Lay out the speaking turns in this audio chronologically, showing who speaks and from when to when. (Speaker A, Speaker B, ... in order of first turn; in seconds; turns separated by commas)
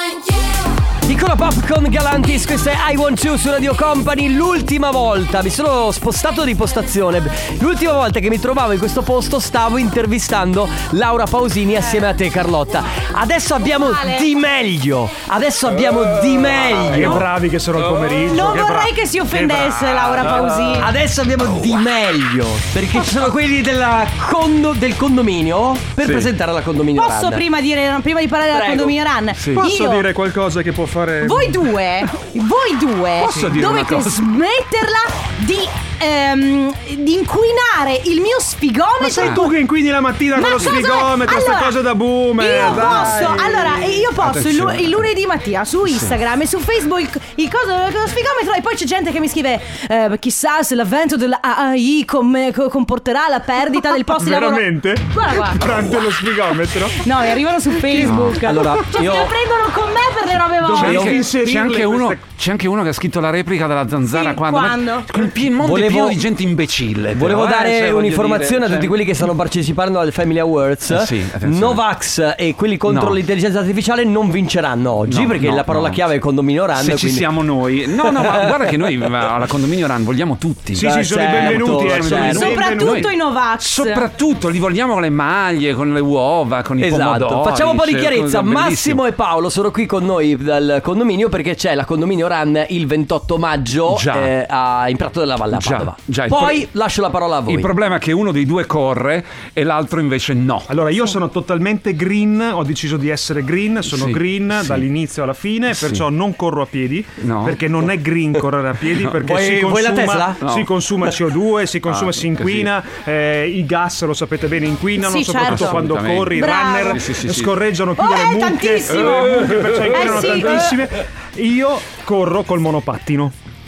Speaker A: 1.0-17.2, Speaker B: 13.6-14.2, Speaker C: 16.9-20.3, Speaker B: 18.3-20.9, Speaker A: 20.7-27.4, Speaker D: 26.0-26.3, Speaker B: 26.9-30.1, Speaker A: 28.5-28.9, Speaker D: 29.4-29.6, Speaker C: 29.5-31.6, Speaker B: 31.2-39.5, Speaker D: 33.2-34.3, Speaker C: 33.3-33.5, Speaker C: 39.0-44.0, Speaker D: 39.2-39.5, Speaker B: 40.3-41.8, Speaker B: 42.4-55.6, Speaker D: 42.6-43.3, Speaker D: 44.2-45.0, Speaker C: 54.1-57.0, Speaker B: 57.0-61.1, Speaker D: 58.0-58.4, Speaker A: 58.4-59.3, Speaker C: 60.6-62.2, Speaker D: 60.7-69.1, Speaker A: 60.8-61.2, Speaker B: 64.1-65.1, Speaker A: 65.6-66.2, Speaker A: 67.1-77.3, Speaker D: 70.9-71.8, Speaker D: 72.9-73.2, Speaker D: 75.1-76.0, Speaker D: 76.8-89.0, Speaker A: 78.0-78.7, Speaker A: 80.7-82.5, Speaker C: 80.7-83.1, Speaker B: 82.2-84.0, Speaker A: 86.8-97.7, Speaker D: 93.9-94.3, Speaker D: 95.5-96.7, Speaker D: 97.5-100.7, Speaker C: 100.7-123.3, Speaker D: 103.8-104.9, Speaker D: 105.7-106.0, Speaker D: 107.2-107.6, Speaker A: 109.2-110.4, Speaker D: 110.4-110.7, Speaker D: 111.8-112.7, Speaker B: 115.0-117.0, Speaker D: 115.4-117.6, Speaker B: 118.0-120.8, Speaker D: 118.9-120.6